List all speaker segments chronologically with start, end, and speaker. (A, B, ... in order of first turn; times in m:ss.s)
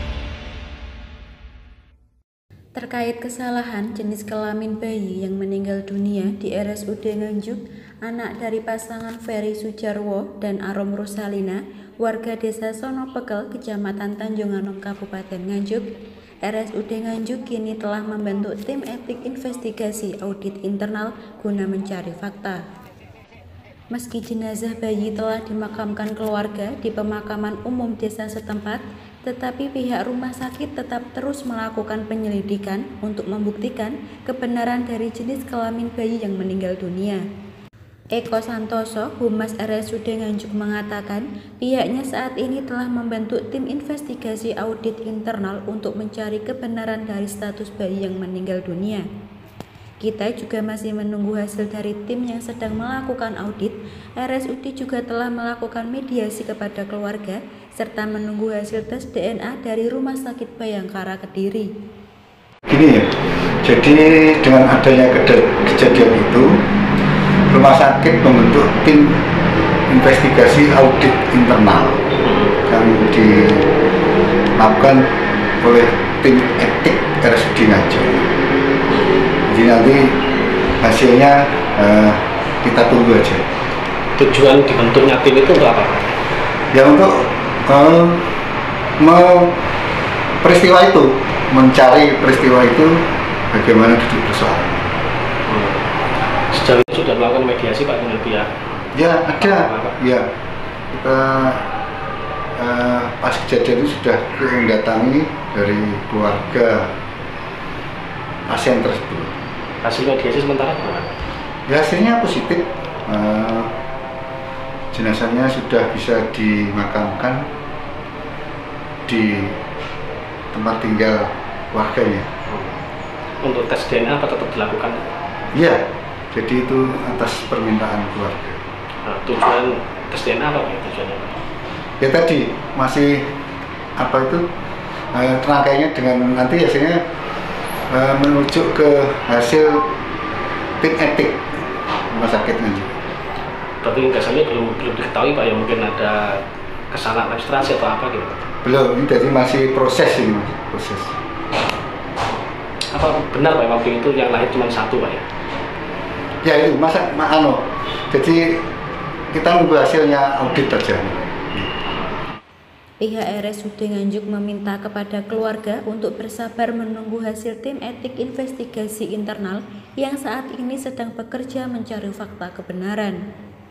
0:02.8-0:15.8 A
0:16.4-0:22.6 A
0:23.9-0:37.2 A
0:38.2-0:49.0 A
0:50.0-1:01.7 A
1:02.7-1:03.1 B
1:03.6-1:06.6 B
1:07.5-1:09.2 B
1:09.9-1:12.0 B
1:12.2-1:12.6 C
1:12.7-1:13.7 B
1:14.6-1:15.1 B
1:15.6-1:18.2 B
1:19.5-1:20.2 B
1:20.8-1:23.5 B
1:24.2-1:26.2 C
1:26.7-1:28.2 B
1:29.0-1:29.6 B
1:30.4-1:34.8 B
1:35.5-1:35.8 C
1:36.5-1:38.5 C
1:38.9-1:40.3 B
1:39.4-1:40.0 C
1:40.9-1:41.6 B
1:42.6-1:47.0 B
1:48.5-1:49.3 B
1:49.8-1:51.1 C
1:51.7-1:53.7 B
1:54.9-1:57.5 B
1:59.1-1:59.6 B
2:00.5-2:02.3 B
2:02.5-2:02.8 C
2:03.4-2:05.0 C
2:05.5-2:08.6 B
2:09.0-2:11.4 C
2:12.0-2:13.3 B
2:14.0-2:14.4 B
2:15.1-2:17.0 B
2:17.9-2:19.9 B
2:20.8-2:21.4 B
2:22.1-2:22.9 B
2:23.8-2:28.4 C
2:28.6-2:31.2 B
2:32.9-2:35.2 C
2:36.4-2:38.6 B
2:39.3-2:41.7 B
2:43.0-2:53.2 A